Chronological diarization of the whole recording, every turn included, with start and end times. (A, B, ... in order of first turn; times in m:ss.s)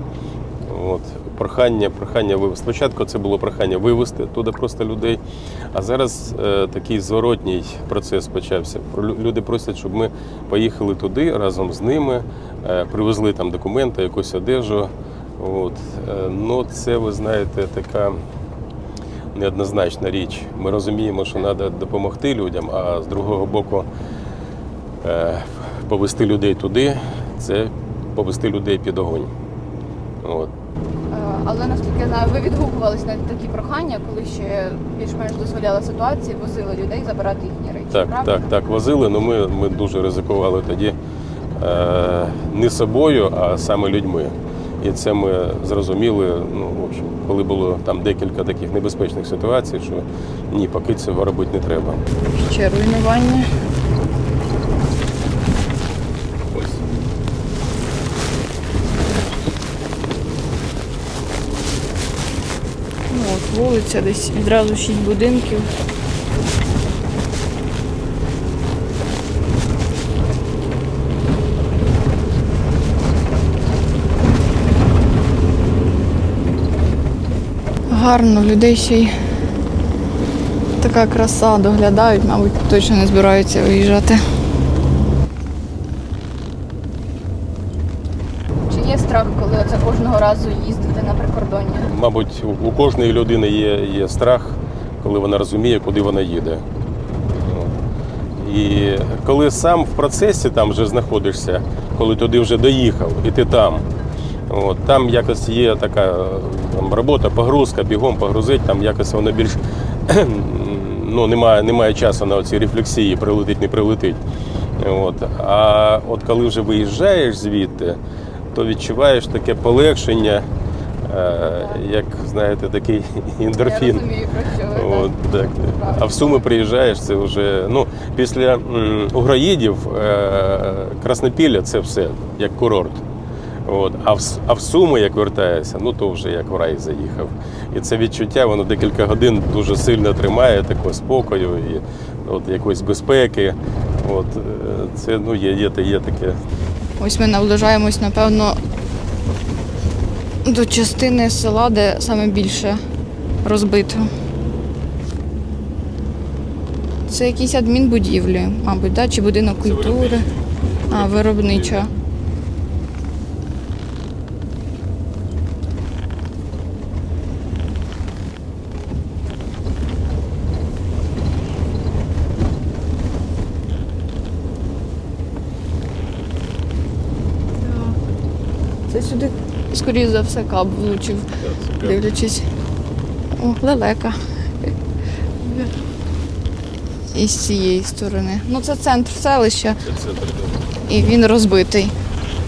0:00.6-0:18.2 A
0:19.3-0:23.9 A
0:25.0-0:29.3 A
0:30.2-0:30.5 A
0:31.1-0:38.5 B
0:37.9-0:41.0 A
0:41.6-0:52.0 A
0:52.3-0:53.5 B
0:56.5-0:56.8 A
1:03.1-1:05.7 B
1:17.9-1:19.1 B
1:20.8-1:24.2 B
1:28.7-1:31.9 B
1:31.8-1:36.6 A
1:37.3-1:37.7 A
1:38.4-1:43.9 A
1:44.5-1:54.2 A
1:54.8-1:58.0 A
1:58.5-2:00.5 A
2:01.0-2:04.1 A
2:01.4-2:01.8 B
2:03.6-2:06.4 B
2:04.7-2:13.0 A
2:13.6-2:26.4 A
2:27.0-2:28.6 B
2:30.4-2:32.8 B
2:33.4-2:34.1 B
2:37.0-2:40.2 B
2:39.6-2:40.2 A
2:40.8-2:41.9 A
2:40.9-2:41.9 B
2:57.6-2:58.0 B
2:58.9-3:02.5 B
3:01.4-3:02.1 A
3:03.4-3:04.7 B
3:05.4-3:05.7 B
3:07.1-3:09.8 B
3:09.8-3:10.7 A
3:10.8-3:11.9 B